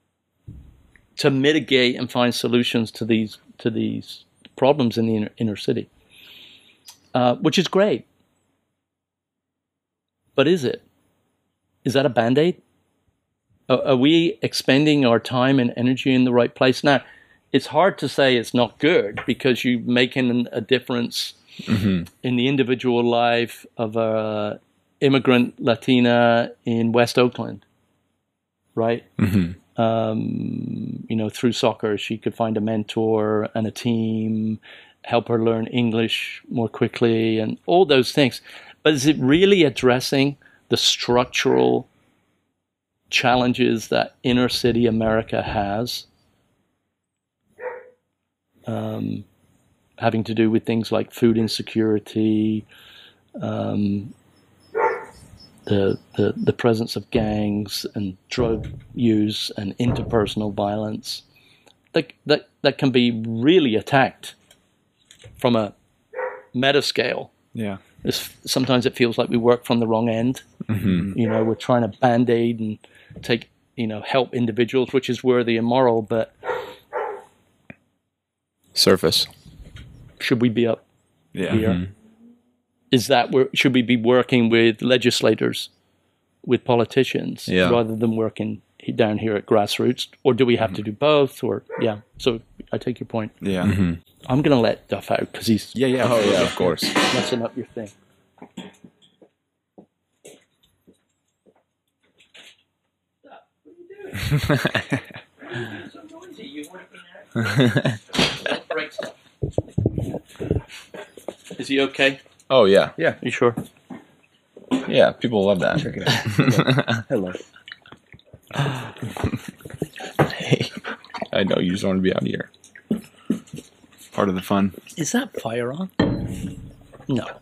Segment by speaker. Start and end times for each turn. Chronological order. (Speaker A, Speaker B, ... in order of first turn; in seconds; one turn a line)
Speaker A: 1.1-5.9
Speaker A: 7.1-8.1
Speaker A: 10.3-10.8
Speaker A: 11.8-12.6
Speaker A: 13.7-21.4
Speaker B: 21.7-22.0
Speaker A: 22.1-27.6
Speaker A: 28.8-29.1
Speaker B: 29.2-29.6
Speaker A: 29.8-41.9
Speaker A: 43.1-46.1
Speaker A: 48.7-49.2
Speaker A: 50.0-52.6
Speaker A: 53.4-54.1
Speaker A: 55.6-61.2
Speaker A: 61.9-64.3
Speaker A: 65.4-65.7
Speaker A: 66.5-67.3
Speaker C: 67.5-67.8
Speaker A: 68.0-70.5
Speaker B: 70.7-71.1
Speaker C: 70.9-71.1
Speaker A: 71.1-76.3
Speaker B: 78.7-79.3
Speaker A: 80.2-80.8
Speaker C: 81.3-81.6
Speaker B: 81.5-81.9
Speaker A: 81.5-81.8
Speaker A: 82.9-85.7
Speaker A: 86.4-93.4
Speaker B: 87.5-87.8
Speaker C: 93.4-93.7
Speaker B: 93.6-94.0
Speaker A: 94.3-97.9
Speaker C: 95.7-96.8
Speaker B: 96.0-96.9
Speaker A: 103.9-104.5
Speaker A: 105.5-107.7
Speaker B: 107.4-108.0
Speaker A: 108.3-109.1
Speaker A: 111.5-112.2
Speaker B: 112.5-113.0
Speaker A: 113.2-113.6
Speaker B: 114.8-117.0
Speaker C: 115.9-117.4
Speaker B: 118.6-118.9
Speaker B: 120.1-122.5
Speaker C: 124.1-124.8
Speaker A: 125.0-126.2